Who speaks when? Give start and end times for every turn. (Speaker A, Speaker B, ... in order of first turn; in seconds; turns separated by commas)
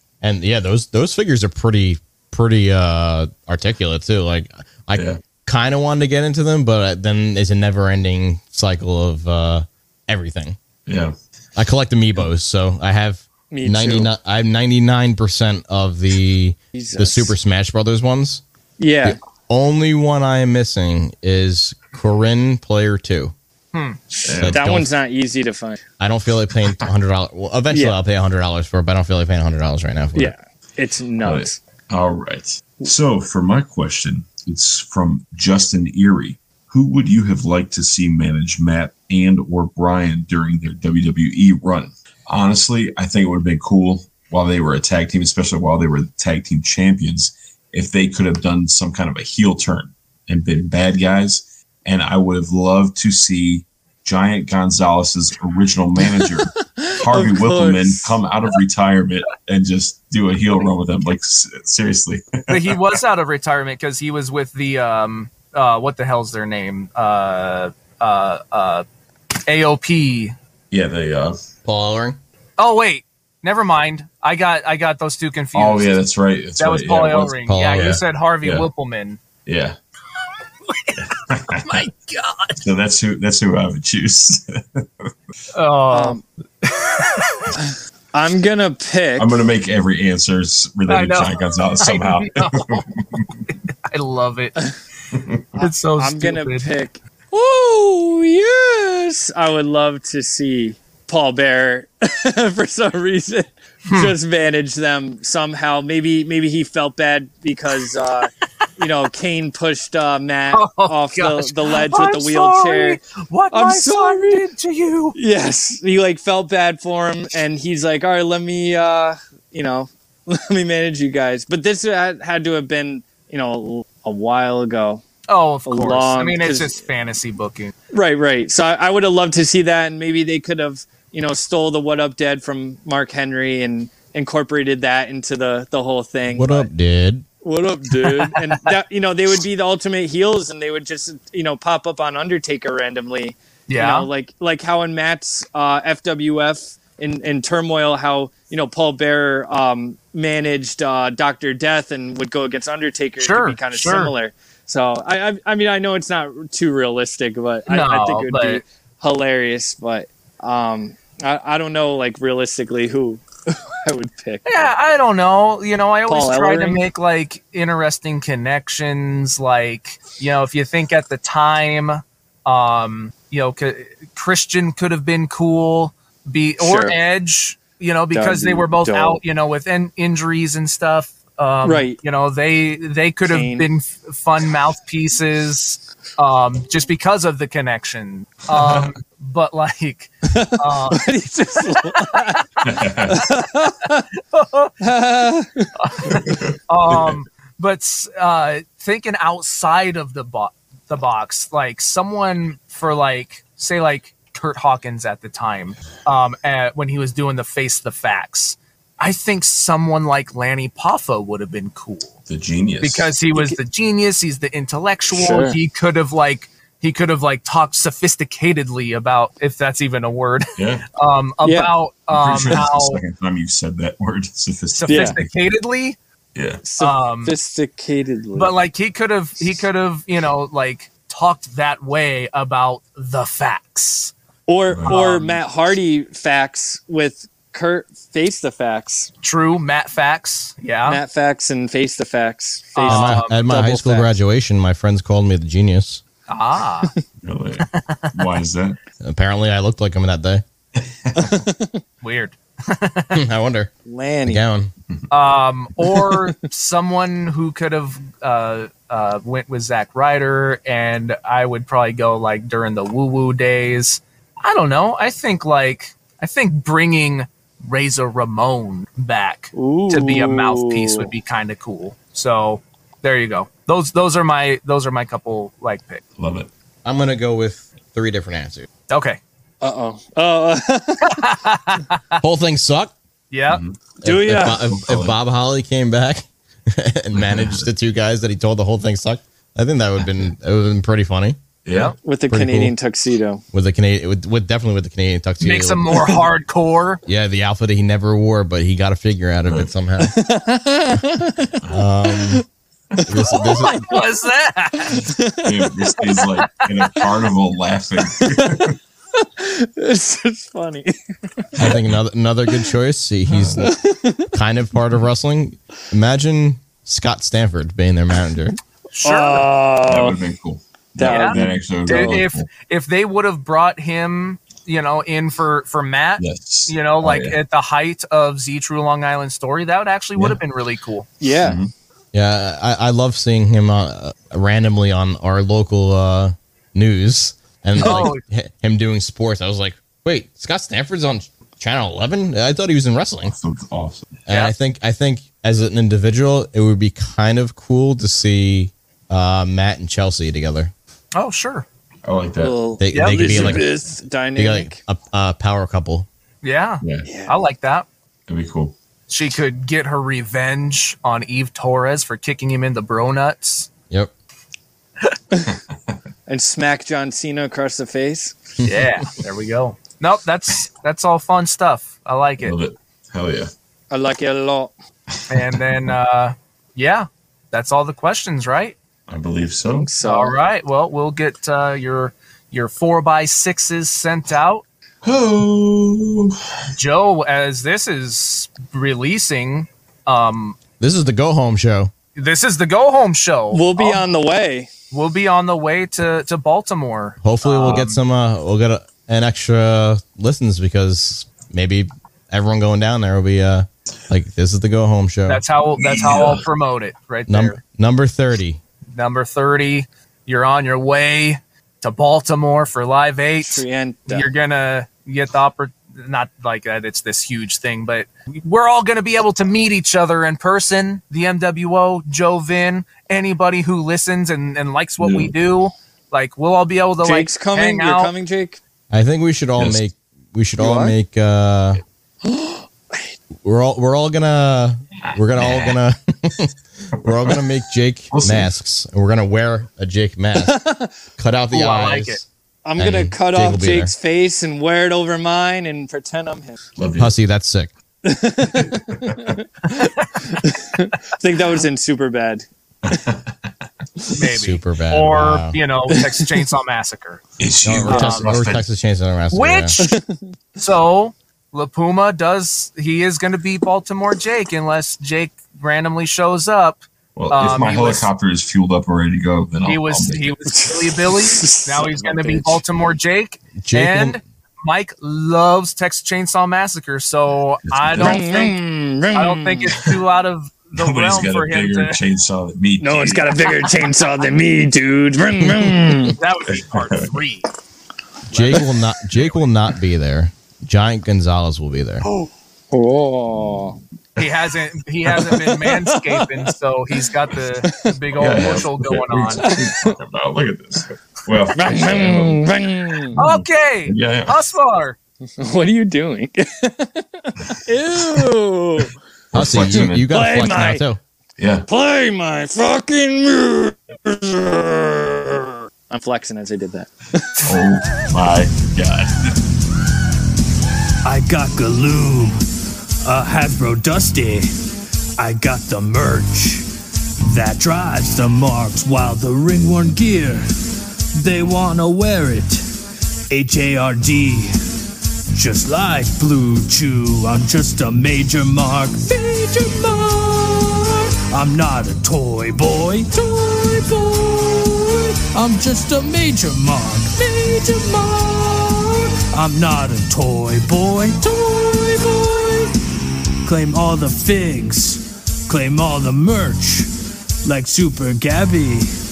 Speaker A: 0.2-10.6, Speaker B: 5.0-5.2, Speaker B: 10.9-11.1, Speaker A: 11.6-18.4, Speaker C: 13.5-14.1, Speaker C: 16.7-17.3, Speaker C: 18.8-19.2, Speaker A: 19.0-23.4, Speaker D: 23.7-24.0, Speaker B: 24.2-24.6, Speaker A: 24.4-24.9, Speaker C: 24.5-25.8, Speaker A: 26.0-30.3, Speaker C: 27.7-28.0, Speaker C: 30.1-31.6, Speaker B: 31.2-62.8, Speaker C: 57.0-58.2, Speaker D: 62.5-68.8, Speaker D: 69.5-70.3, Speaker B: 70.7-71.4, Speaker A: 71.7-72.2, Speaker D: 72.6-76.0, Speaker B: 75.5-78.7, Speaker D: 76.6-79.2, Speaker A: 77.5-78.0, Speaker B: 79.5-79.8, Speaker D: 80.7-82.6, Speaker B: 81.0-81.8, Speaker B: 82.6-84.9, Speaker D: 85.5-86.2, Speaker C: 85.9-86.2, Speaker D: 86.8-87.5, Speaker C: 88.1-89.3, Speaker B: 89.2-93.4, Speaker D: 90.9-92.8, Speaker D: 93.9-94.6, Speaker B: 95.1-95.4, Speaker C: 95.6-113.0, Speaker D: 95.6-96.7, Speaker D: 103.9-104.1, Speaker D: 110.5-115.2, Speaker C: 113.5-114.5, Speaker C: 115.2-125.0, Speaker D: 125.3-127.7, Speaker C: 125.7-126.7, Speaker C: 127.9-136.7, Speaker A: 136.3-137.3, Speaker C: 137.4-164.7, Speaker D: 143.7-144.1, Speaker D: 153.2-154.1, Speaker D: 157.7-158.6, Speaker D: 164.5-191.1, Speaker C: 166.1-166.8, Speaker C: 176.6-177.0, Speaker C: 178.1-179.2, Speaker C: 181.6-182.0, Speaker C: 183.3-183.7, Speaker B: 188.5-188.9, Speaker C: 190.3-192.4, Speaker B: 192.6-193.2, Speaker C: 193.1-194.0, Speaker D: 194.3-194.8, Speaker C: 194.8-195.7, Speaker D: 195.8-212.2, Speaker B: 196.1-197.2, Speaker B: 212.3-213.1, Speaker D: 212.8-223.0, Speaker C: 215.1-215.6, Speaker B: 220.6-220.9, Speaker C: 221.4-221.7, Speaker B: 222.1-225.3, Speaker D: 224.8-226.0, Speaker C: 224.9-225.2, Speaker B: 226.3-226.6, Speaker C: 226.6-228.5, Speaker D: 226.8-227.3, Speaker D: 228.3-234.1, Speaker C: 234.5-239.1, Speaker B: 234.7-234.9, Speaker D: 234.8-235.4, Speaker D: 239.2-241.0, Speaker C: 240.9-244.2, Speaker D: 242.8-243.4, Speaker A: 242.9-246.0, Speaker D: 246.3-246.9, Speaker B: 247.2-248.8, Speaker D: 247.8-248.1, Speaker A: 249.0-250.4, Speaker B: 251.1-251.3, Speaker C: 251.2-251.8, Speaker D: 252.0-253.2, Speaker A: 253.1-253.7, Speaker C: 253.9-254.4, Speaker A: 254.2-254.7, Speaker D: 255.1-276.0, Speaker C: 255.9-256.2, Speaker C: 269.5-271.1, Speaker B: 276.2-276.5, Speaker A: 276.9-278.7, Speaker D: 278.9-279.2, Speaker C: 279.6-281.2, Speaker D: 281.1-282.0, Speaker A: 282.2-282.9, Speaker D: 283.3-283.6, Speaker B: 283.5-283.8, Speaker A: 284.0-291.4, Speaker C: 284.0-284.7, Speaker B: 284.6-285.1, Speaker B: 287.2-287.7, Speaker B: 291.6-291.9, Speaker C: 292.0-293.4, Speaker A: 292.3-292.8, Speaker A: 293.5-296.0, Speaker D: 295.4-297.0, Speaker A: 297.1-300.2, Speaker B: 299.4-299.7, Speaker C: 300.0-302.4, Speaker A: 301.7-302.4, Speaker C: 303.0-303.9, Speaker A: 303.1-303.8, Speaker D: 303.6-305.1, Speaker C: 304.9-306.0, Speaker B: 305.4-308.8, Speaker C: 308.2-311.5, Speaker B: 311.6-312.0, Speaker A: 311.6-313.8, Speaker B: 313.3-313.7, Speaker C: 313.6-314.3, Speaker A: 314.3-318.6, Speaker D: 318.9-319.5, Speaker C: 319.1-320.2, Speaker B: 319.9-322.5, Speaker C: 321.0-322.2, Speaker D: 321.0-331.1, Speaker B: 326.2-327.4, Speaker B: 330.1-330.4, Speaker C: 331.2-331.6, Speaker B: 331.4-331.7, Speaker A: 332.1-343.3, Speaker D: 337.8-338.2, Speaker C: 337.8-338.1, Speaker B: 343.3-344.1, Speaker A: 344.3-350.7, Speaker D: 344.3-344.5, Speaker D: 351.1-351.6, Speaker B: 352.0-352.6, Speaker C: 352.4-354.8, Speaker A: 352.8-353.7, Speaker D: 352.9-353.5, Speaker A: 354.4-356.1, Speaker D: 356.4-357.9, Speaker B: 356.8-357.1, Speaker C: 357.1-357.4, Speaker B: 358.3-358.8, Speaker D: 359.1-363.7, Speaker C: 366.3-368.4, Speaker A: 368.6-369.0, Speaker D: 368.6-372.6, Speaker B: 372.4-373.5, Speaker C: 373.9-374.7, Speaker D: 375.3-378.8, Speaker B: 379.1-379.9, Speaker C: 379.8-380.4, Speaker D: 380.0-384.6, Speaker B: 385.0-386.4, Speaker D: 386.8-390.6, Speaker A: 390.8-391.9, Speaker D: 392.2-394.0, Speaker C: 393.5-394.7, Speaker D: 394.9-398.0, Speaker A: 397.2-405.4, Speaker D: 405.3-407.6, Speaker B: 405.8-406.4, Speaker A: 407.3-408.6, Speaker D: 408.9-428.1, Speaker C: 413.4-414.3, Speaker B: 425.0-425.3, Speaker C: 427.0-428.6, Speaker A: 428.9-431.8, Speaker C: 430.6-430.9, Speaker C: 432.2-433.2, Speaker A: 433.4-440.6, Speaker B: 435.0-435.8, Speaker B: 437.0-437.4, Speaker B: 438.1-438.5, Speaker C: 440.4-440.9, Speaker A: 441.2-443.9, Speaker D: 441.5-442.2, Speaker C: 442.6-446.6, Speaker B: 446.8-447.1, Speaker A: 447.0-447.7, Speaker C: 448.1-452.5, Speaker B: 448.6-449.3, Speaker D: 449.7-450.2, Speaker B: 452.9-453.3, Speaker D: 454.1-457.2, Speaker A: 454.3-455.6, Speaker B: 457.4-458.7, Speaker A: 457.6-459.8, Speaker D: 457.9-458.3, Speaker D: 459.3-460.0, Speaker C: 459.8-460.2, Speaker D: 460.6-468.1, Speaker B: 467.2-470.4, Speaker D: 469.6-478.6, Speaker C: 470.5-472.6, Speaker A: 473.6-474.2, Speaker B: 477.6-478.3, Speaker C: 478.0-479.9, Speaker D: 479.1-482.0, Speaker B: 480.8-483.4, Speaker C: 482.8-486.2, Speaker D: 486.1-487.5, Speaker B: 486.5-487.1, Speaker D: 488.3-488.6, Speaker A: 488.3-492.1, Speaker C: 492.0-493.8, Speaker D: 494.2-499.5, Speaker C: 495.1-496.4, Speaker C: 497.6-498.0, Speaker B: 498.2-504.5, Speaker C: 499.4-500.0, Speaker C: 501.6-503.2, Speaker D: 503.2-505.0, Speaker C: 505.4-508.9, Speaker B: 509.3-510.1, Speaker A: 509.3-511.0, Speaker C: 509.6-510.8, Speaker B: 511.4-511.7, Speaker C: 511.7-517.6, Speaker B: 517.5-519.2, Speaker E: 521.0-522.4, Speaker E: 523.0-524.5, Speaker E: 525.2-526.7, Speaker E: 527.2-530.5, Speaker E: 531.1-532.7, Speaker E: 533.3-534.5, Speaker E: 535.3-552.8, Speaker E: 553.5-556.9, Speaker E: 557.4-558.9